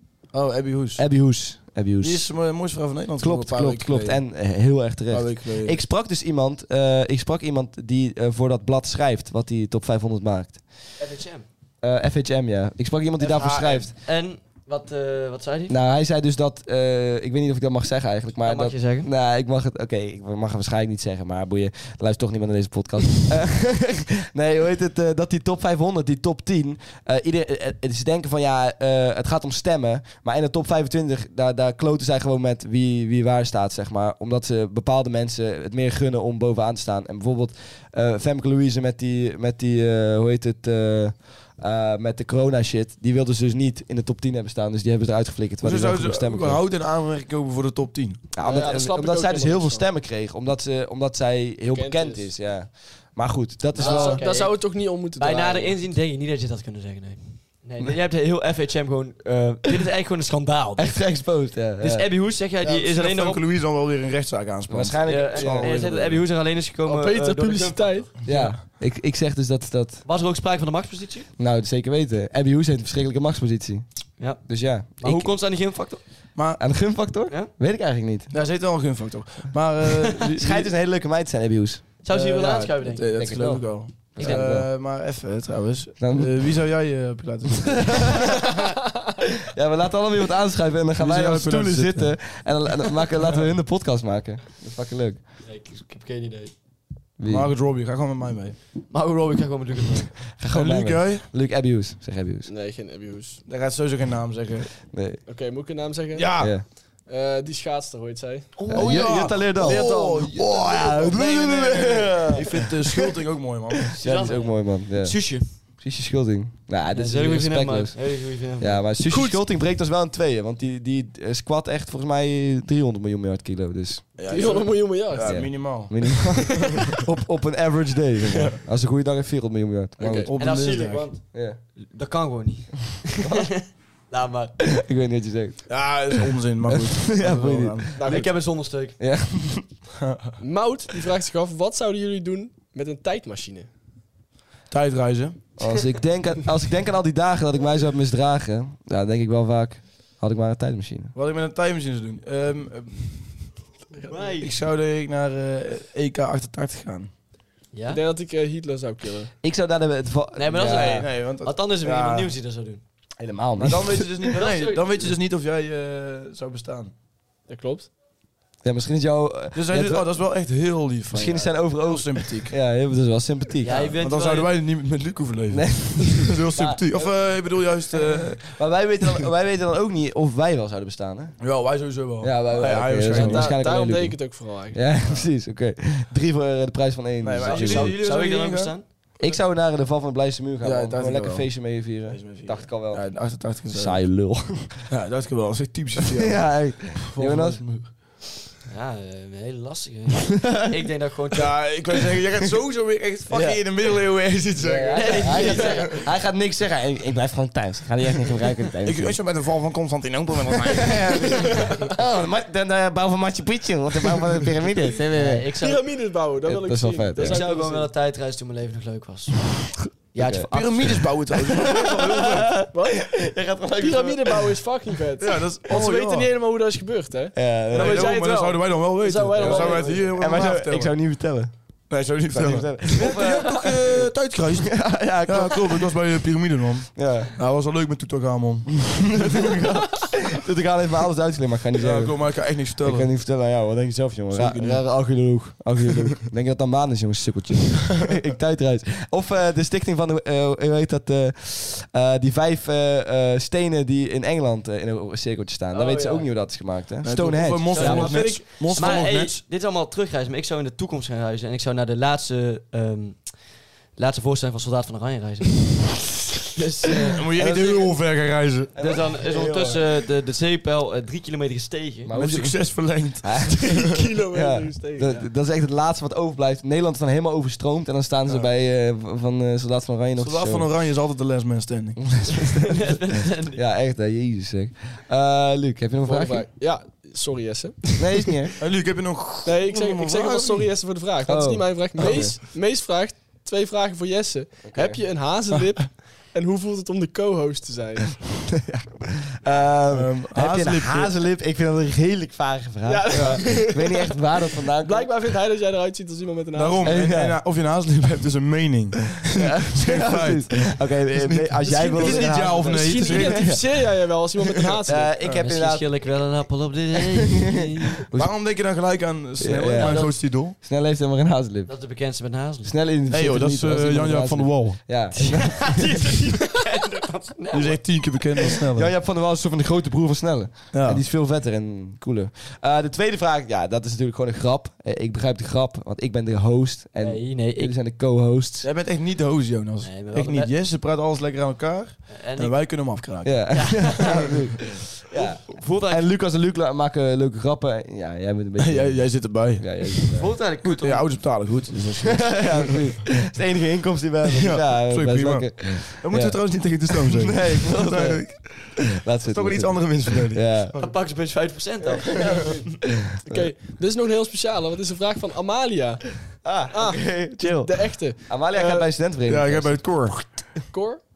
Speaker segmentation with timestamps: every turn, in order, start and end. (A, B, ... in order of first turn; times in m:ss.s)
0:00.3-0:01.1 A
0:01.0-0:02.3 B
0:02.0-0:04.2 A
0:03.2-0:11.0 B
0:05.1-0:05.8 A
0:11.0-0:11.5 C
0:11.8-0:13.9 B
0:13.2-0:15.8 C
0:15.7-0:46.6 B
0:18.4-0:19.1 C
0:45.6-0:48.3 A
0:48.4-0:54.2 B
0:48.4-0:49.8 D
0:51.7-0:52.3 D
0:53.8-1:03.4 C
0:53.8-0:55.8 D
1:00.8-1:02.1 B
1:02.6-1:06.1 A
1:04.7-1:06.2 B
1:05.0-1:08.5 C
1:06.8-1:08.2 D
1:08.2-1:10.0 B
1:10.0-1:11.3 C
1:11.4-1:15.3 B
1:14.2-1:16.0 C
1:16.4-1:16.6 A
1:16.6-1:18.3 B
1:18.3-1:20.7 A
1:20.4-1:21.9 B
1:22.0-1:23.3 C
1:22.1-1:28.2 A
1:23.1-1:24.7 B
1:24.2-1:24.5 C
1:26.0-1:26.6 B
1:27.7-1:28.7 B
1:29.4-1:35.2 B
1:31.0-1:32.2 A
1:35.4-1:36.5 C
1:37.2-1:37.5 B
1:37.2-1:38.6 A
1:38.9-1:40.2 C
1:40.4-1:42.5 B
1:40.5-1:41.3 A
1:42.5-1:43.4 D
1:43.5-1:44.8 A
1:44.9-1:45.2 B
1:45.2-1:48.6 D
1:46.1-1:46.6 A
1:46.4-1:46.6 B
1:48.6-1:50.0 C
1:48.7-1:52.7 B
1:48.7-1:53.8 A
1:53.9-1:58.1 B
1:54.0-1:55.5 C
1:56.9-1:58.9 C
1:58.6-2:04.2 B
1:59.1-1:59.4 D
2:04.2-2:07.0 A
2:04.3-2:05.6 D
2:05.2-2:10.3 B
2:06.4-2:06.7 D
2:08.3-2:08.6 A
2:10.0-2:11.1 A
2:10.4-2:14.8 C
2:11.3-2:11.6 B
2:13.2-2:13.5 B
2:14.7-2:16.1 B
2:15.7-2:18.0 A
2:16.7-2:18.1 B
2:18.0-2:18.3 D
2:18.0-2:19.0 C
2:19.0-2:19.7 B
2:20.0-2:20.4 A
2:20.4-2:23.7 D
2:24.7-2:25.4 A
2:25.6-2:31.1 B
2:31.2-2:33.2 A
2:34.1-2:34.5 C
2:34.4-2:37.1 A
2:37.7-2:38.0 C
2:37.9-2:39.3 D
2:39.4-2:41.1 B
2:40.4-2:42.8 C
2:40.6-2:42.3 A
2:43.2-2:44.4 B
2:43.6-2:46.9 A
2:44.3-2:45.1 C
2:47.5-2:47.9 D
2:48.6-2:50.1 B
2:49.6-2:52.6 A
2:51.1-2:53.9 B
2:53.6-2:54.5 C
2:53.7-2:58.6 A
2:55.5-2:57.3 B
2:57.9-3:01.4 B
3:01.4-3:03.6 A
3:02.2-3:08.0 B
3:03.0-3:05.0 D
3:07.2-3:08.7 A
3:07.4-3:08.9 C
3:09.2-3:14.8 B
3:10.6-3:14.0 A
3:14.9-3:17.9 A
3:16.1-3:17.6 B
3:18.7-3:21.6 C
3:21.3-3:26.0 A
3:23.3-3:23.6 B
3:24.6-3:29.2 B
3:24.9-3:26.1 C
3:28.8-3:31.7 A
3:30.5-3:35.5 B
3:35.1-3:35.8 C
3:35.6-3:37.9 D
3:36.4-3:37.4 B
3:37.2-3:41.1 C
3:40.2-3:44.6 B
3:40.5-3:42.7 A
3:42.7-3:50.2 D
3:45.2-3:46.3 A
3:47.4-3:48.2 B
3:47.7-3:51.0 A
3:49.4-3:51.5 B
3:51.9-3:59.6 A
3:52.3-3:56.0 B
3:57.0-3:57.3 B
3:59.2-4:18.4 B
4:01.8-4:03.1 A
4:04.3-4:05.2 A
4:15.7-4:16.4 C
4:17.0-4:19.4 A
4:17.7-4:27.2 C
4:17.8-4:19.1 D
4:27.1-4:28.8 A
4:27.4-4:27.9 B
4:28.8-4:29.8 B
4:28.8-4:32.1 C
4:32.1-4:33.6 B
4:32.1-4:33.8 A
4:33.4-4:35.3 D
4:34.3-4:40.7 B
4:40.2-4:42.0 A
4:42.1-4:42.7 B
4:42.5-4:43.6 C
4:43.5-4:46.5 B
4:46.0-4:48.5 D
4:48.0-4:48.6 B
4:48.6-4:50.7 A
4:49.4-4:58.2 D
4:51.3-4:52.4 B
4:52.0-4:52.2 A
4:54.7-4:55.0 B
4:58.6-5:05.1 B
4:59.9-5:01.1 A
5:02.8-5:04.2 D
5:03.1-5:03.5 A
5:04.8-5:07.1 D
5:06.5-5:13.6 A
5:06.8-5:07.4 B
5:09.3-5:13.8 B
5:11.8-5:15.2 D
5:12.7-5:13.1 C
5:14.6-5:15.4 A
5:14.8-5:15.9 B
5:15.3-5:18.1 C
5:17.4-5:18.3 B
5:18.1-5:20.6 A
5:19.4-5:21.8 B
5:19.6-5:20.2 C
5:21.7-5:22.8 C
5:22.6-5:26.0 B
5:23.1-5:25.0 A
5:25.2-5:28.4 C
5:27.5-5:28.9 A
5:28.6-5:38.7 B
5:30.7-5:31.0 A
5:37.0-5:37.7 C
5:38.6-5:44.3 A
5:39.8-5:40.5 C
5:42.1-5:42.6 C
5:43.2-5:50.3 B
5:43.5-5:44.5 C
5:45.1-5:46.1 C
5:48.6-5:52.8 A
5:50.1-5:51.2 C
5:52.0-6:00.7 B
5:54.3-6:00.9 A
6:00.8-6:02.8 C
6:01.8-6:02.6 B
6:03.3-6:03.5 B
6:03.3-6:06.2 D
6:06.4-6:09.8 B
6:06.7-6:08.4 D
6:08.5-6:10.6 A
6:10.7-6:11.0 D